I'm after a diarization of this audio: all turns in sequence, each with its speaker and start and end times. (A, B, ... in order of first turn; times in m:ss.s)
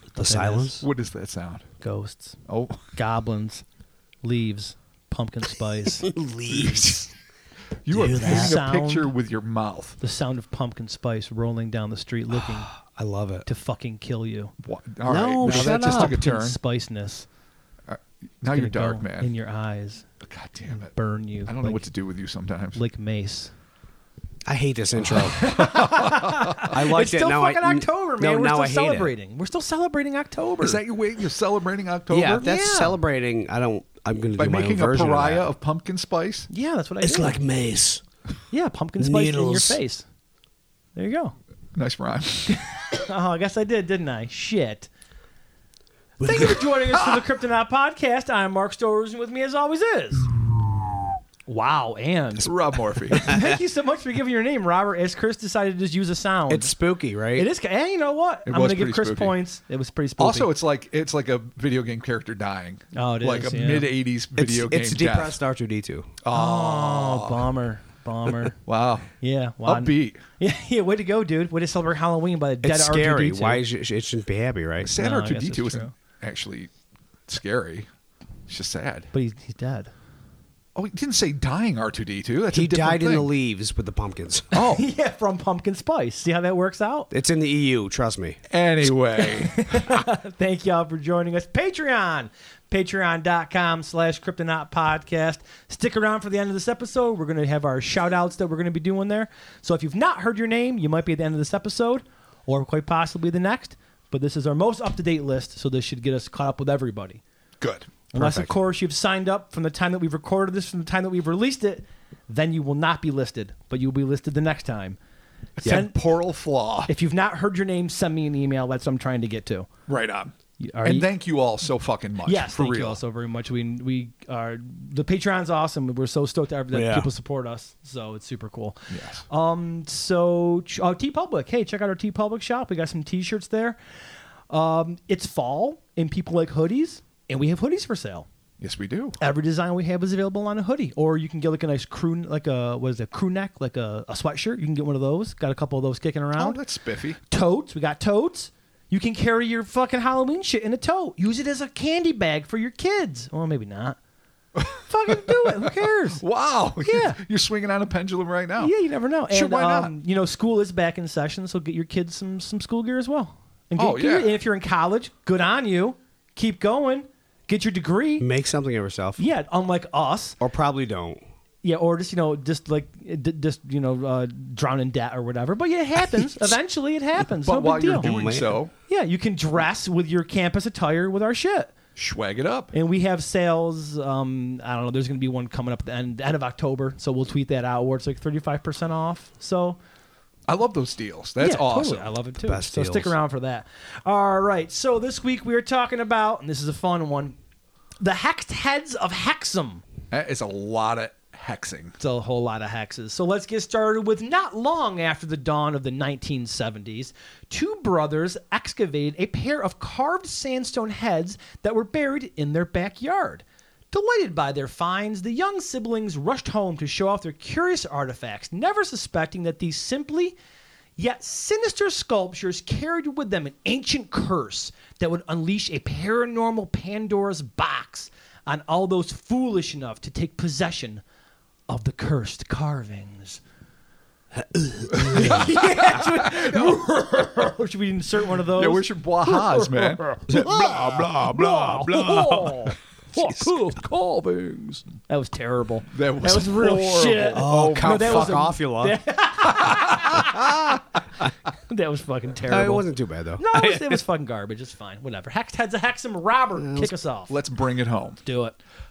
0:00.1-0:00.9 A
0:00.2-0:00.7 B
0:00.8-0:01.7 C
0:01.8-0:02.4 B
0:02.5-0:02.9 C
0:02.9-0:03.6 B
0:04.2-0:06.1 B
0:06.1-0:07.0 A
0:06.5-0:07.1 C
0:07.8-0:10.0 C
0:07.9-0:08.6 A
0:08.2-0:09.1 B
0:10.0-0:12.7 B
0:12.4-0:13.5 A
0:13.4-0:14.5 B
0:14.6-0:16.6 C
0:15.1-0:16.2 A
0:15.5-0:17.3 B
0:17.9-0:19.3 C
0:18.5-0:20.0 B
0:20.2-0:20.9 C
0:20.7-0:21.8 B
0:21.5-0:22.8 C
0:22.8-0:23.5 B
0:24.5-0:25.5 A
0:25.0-0:27.0 C
0:25.3-0:30.8 B
0:26.6-0:29.1 A
0:30.6-0:32.5 C
0:32.1-0:35.4 A
0:32.4-0:33.0 B
0:34.4-0:36.5 C
0:36.5-0:37.4 B
0:37.0-0:38.0 A
0:38.5-0:40.0 B
0:39.0-0:39.8 A
0:41.0-0:41.4 B
0:41.7-0:42.6 C
0:42.5-0:44.9 B
0:46.2-0:50.3 B
0:46.2-0:46.6 A
0:46.4-0:47.3 C
0:51.5-0:52.5 B
0:52.4-0:53.3 C
0:53.1-0:56.8 B
0:56.5-0:57.5 A
0:57.4-1:00.5 B
0:58.5-0:59.4 C
1:00.2-1:05.4 C
1:02.9-1:03.9 B
1:04.4-1:06.1 A
1:06.2-1:07.5 C
1:06.3-1:08.6 B
1:08.6-1:09.1 C
1:09.2-1:13.6 B
1:09.7-1:10.2 C
1:12.6-1:14.9 A
1:14.8-1:16.7 C
1:15.0-1:15.9 B
1:17.3-1:17.9 C
1:18.5-1:19.1 C
1:19.1-1:19.9 B
1:20.8-1:23.3 C
1:22.5-1:24.5 A
1:24.5-1:24.8 C
1:24.7-1:27.1 B
1:27.1-1:28.4 A
1:28.5-1:29.8 C
1:29.2-1:47.2 B
1:47.6-1:47.9 C
1:48.1-1:55.0 B
1:48.2-1:48.5 A
1:55.6-1:56.9 C
1:55.6-1:55.9 B
1:56.9-1:59.7 B
1:59.9-2:03.0 C
2:00.6-2:01.1 B
2:02.2-2:13.8 B
2:06.7-2:07.1 A
2:08.9-2:09.2 C
2:14.5-2:18.3 B
2:18.6-2:19.2 C
2:19.2-2:26.6 B
2:26.4-2:27.2 C
2:27.3-2:34.0 B
2:34.6-2:38.7 C
2:34.9-2:36.2 B
2:36.8-2:37.2 B
2:38.6-2:48.3 B
2:39.3-2:39.9 C
2:43.8-2:44.4 C
2:48.2-2:49.2 A
2:49.2-2:50.4 B
2:50.4-2:51.2 A
2:51.6-2:58.1 B
2:57.4-2:58.7 C
2:58.0-2:58.6 A
2:58.9-3:01.7 B
3:02.0-3:02.7 C
3:02.7-3:09.8 B
3:10.5-3:12.1 C
3:11.4-3:17.4 B
3:12.5-3:13.1 A
3:18.0-3:19.8 B
3:20.1-3:22.0 C
3:22.0-3:40.4 B
3:41.0-3:51.0 B
3:51.7-3:53.4 B
3:54.9-4:00.2 B
3:54.9-3:55.4 A
3:55.0-3:56.9 C
3:58.5-4:02.2 C
4:00.3-4:02.6 A
4:01.3-4:03.8 B
4:03.2-4:04.9 C
4:05.1-4:10.8 B
4:05.9-4:08.5 C
4:07.4-4:09.0 A
4:09.4-4:10.8 C
4:11.7-4:12.9 B
4:12.5-4:14.0 A
4:13.4-4:17.4 B
4:16.6-4:16.9 A
4:17.3-4:18.2 C
4:18.2-4:18.6 B